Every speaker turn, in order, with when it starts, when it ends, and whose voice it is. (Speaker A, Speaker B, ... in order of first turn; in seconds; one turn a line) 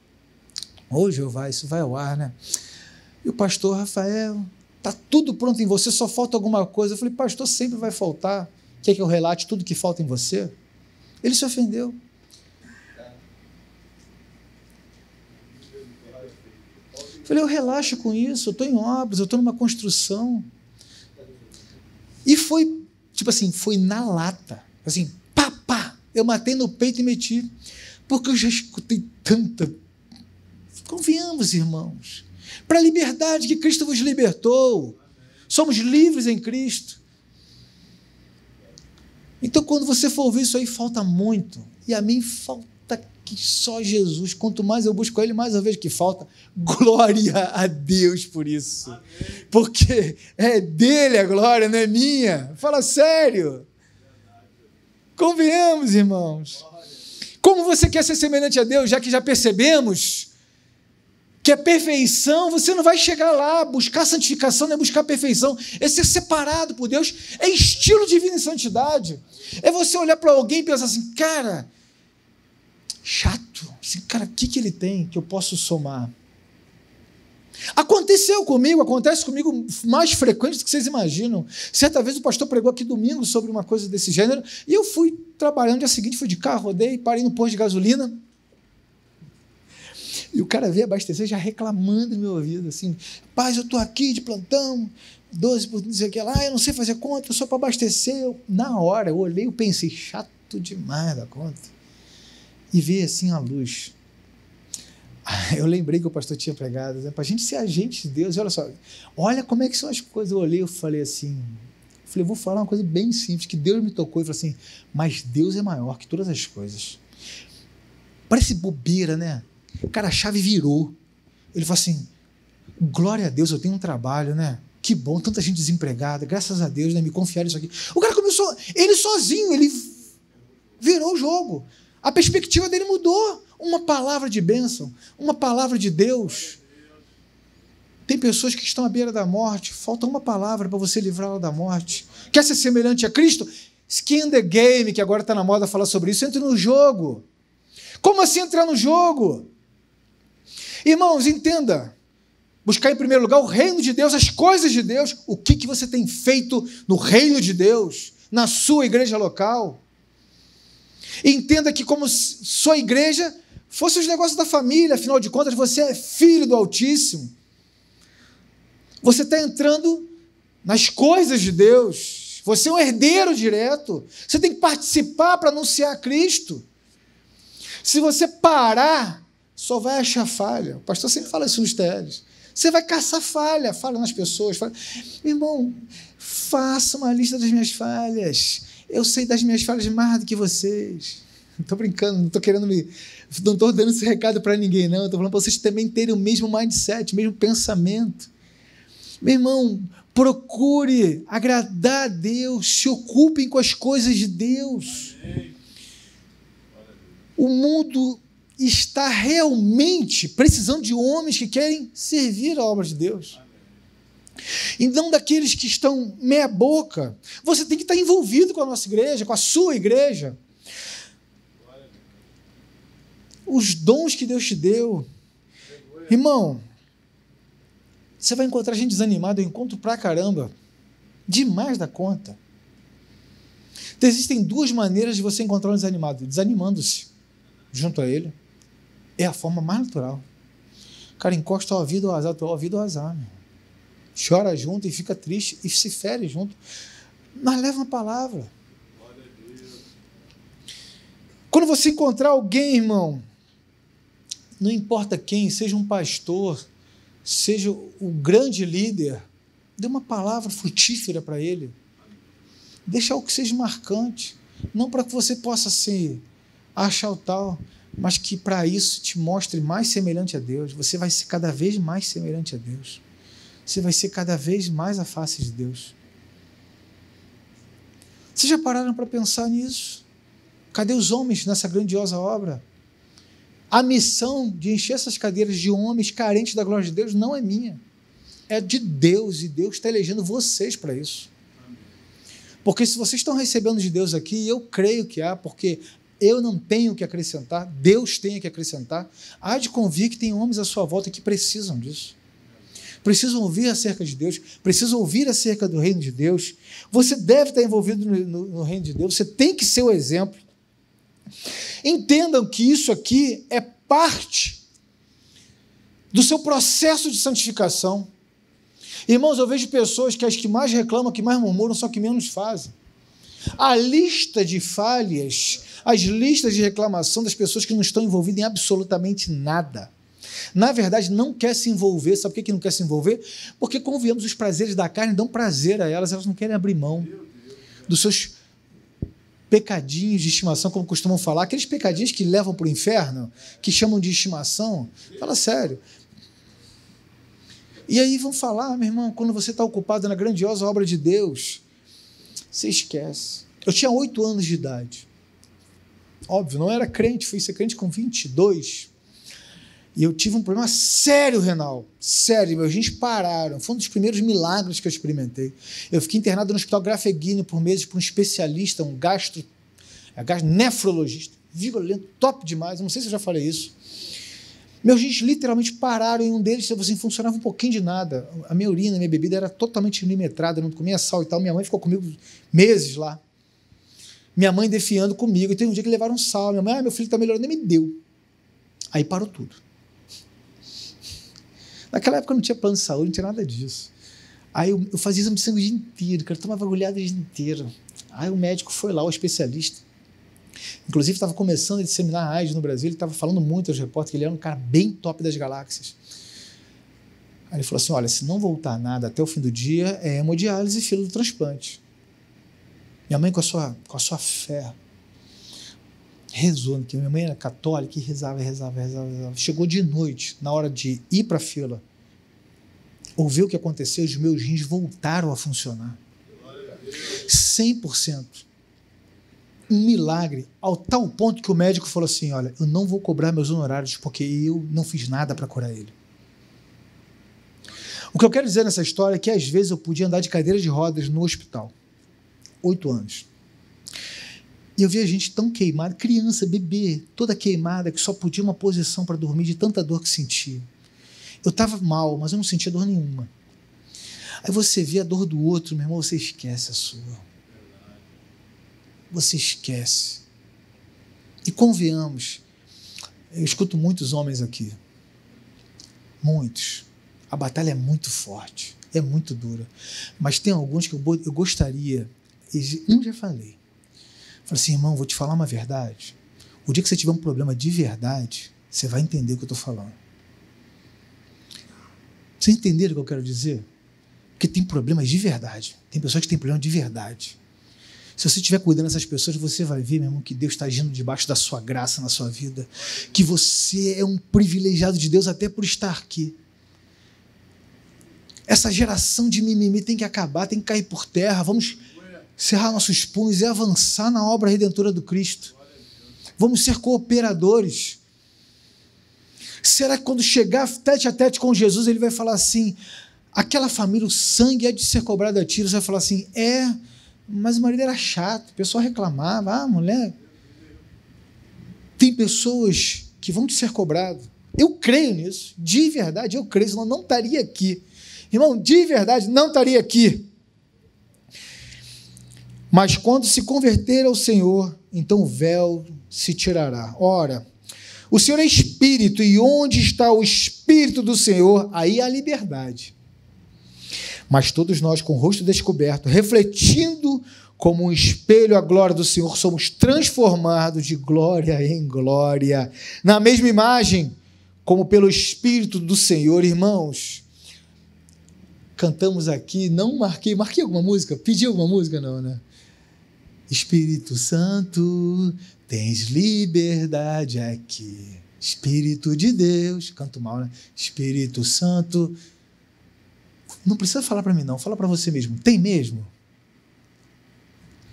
Speaker A: 0.9-2.4
Speaker A: 3.2-10.6
Speaker A: 11.2-12.0
Speaker A: 17.2-20.5
Speaker A: 22.2-27.5
Speaker A: 28.1-29.8
Speaker A: 30.9-35.0
Speaker A: 35.5-37.0
Speaker A: 39.4-53.7
Speaker A: 55.2-56.6
Speaker A: 57.4-60.3
Speaker A: 61.4-71.7
Speaker A: 73.0-76.1
Speaker A: 77.8-88.2
Speaker A: 90.3-101.7
Speaker A: 102.7-103.9
Speaker A: 105.2-117.0
Speaker A: 118.3-121.0
Speaker A: 121.5-122.1
Speaker A: 122.8-130.0
Speaker A: 130.8-136.6
Speaker A: 138.1-147.2
Speaker A: 148.0-149.5
Speaker A: 150.8-151.9
Speaker A: 152.7-159.8
Speaker A: 161.2-167.3
Speaker A: 169.0-170.1
Speaker A: 170.6-176.7
Speaker A: 177.8-198.3
Speaker A: 199.2-205.2
Speaker A: 207.4-213.4
Speaker A: 214.8-220.4
Speaker A: 223.5-225.1
Speaker A: 226.1-226.6
Speaker A: 228.2-230.5
Speaker A: 231.3-232.4
Speaker A: 234.0-237.1
Speaker A: 237.7-238.3
Speaker A: 239.2-240.3
Speaker A: 241.2-243.3
Speaker A: 244.2-246.6
Speaker A: 247.3-248.5
Speaker A: 251.5-253.2
Speaker A: 254.6-256.6
Speaker A: 257.2-259.3
Speaker A: 259.8-261.8
Speaker A: 262.9-266.2
Speaker A: 266.8-273.0
Speaker A: 273.7-275.9
Speaker A: 278.4-280.0
Speaker A: 280.7-282.6
Speaker A: 283.7-287.8
Speaker A: 288.5-291.3
Speaker A: 292.6-302.2
Speaker A: 303.0-310.4
Speaker A: 311.8-314.6
Speaker A: 316.1-318.1
Speaker A: 319.1-322.7
Speaker A: 323.6-329.9
Speaker A: 330.5-337.2
Speaker A: 337.9-338.4
Speaker A: 339.5-345.8
Speaker A: 347.9-351.6
Speaker A: 352.5-355.1
Speaker A: 356.3-358.9
Speaker A: 360.0-369.5
Speaker A: 370.2-373.8
Speaker A: 374.8-383.2
Speaker A: 384.4-388.0
Speaker A: 388.9-389.6
Speaker A: 391.9-393.9
Speaker A: 394.5-399.8
Speaker A: 400.9-406.0
Speaker A: 407.5-411.8
Speaker A: 413.1-414.8
Speaker A: 416.3-421.8
Speaker A: 423.2-426.0
Speaker A: 427.2-428.4
Speaker A: 429.7-435.9
Speaker A: 438.1-441.7
Speaker A: 442.6-443.3
Speaker A: 444.8-450.7
Speaker A: 451.4-453.3
Speaker A: 454.4-457.2
Speaker A: 459.1-460.2
Speaker A: 461.4-462.4
Speaker A: 463.3-464.8
Speaker A: 466.2-473.6
Speaker A: 474.5-480.0
Speaker A: 482.4-483.7
Speaker A: 484.4-487.4
Speaker A: 488.2-496.4
Speaker A: 498.5-501.8
Speaker A: 502.4-505.5
Speaker A: 506.4-508.0
Speaker A: 509.6-512.8
Speaker A: 513.3-520.2
Speaker A: 522.0-530.3
Speaker A: 532.7-537.5
Speaker A: 538.1-542.9
Speaker A: 544.3-557.2
Speaker A: 558.8-562.4
Speaker A: 563.5-572.2
Speaker A: 573.6-576.1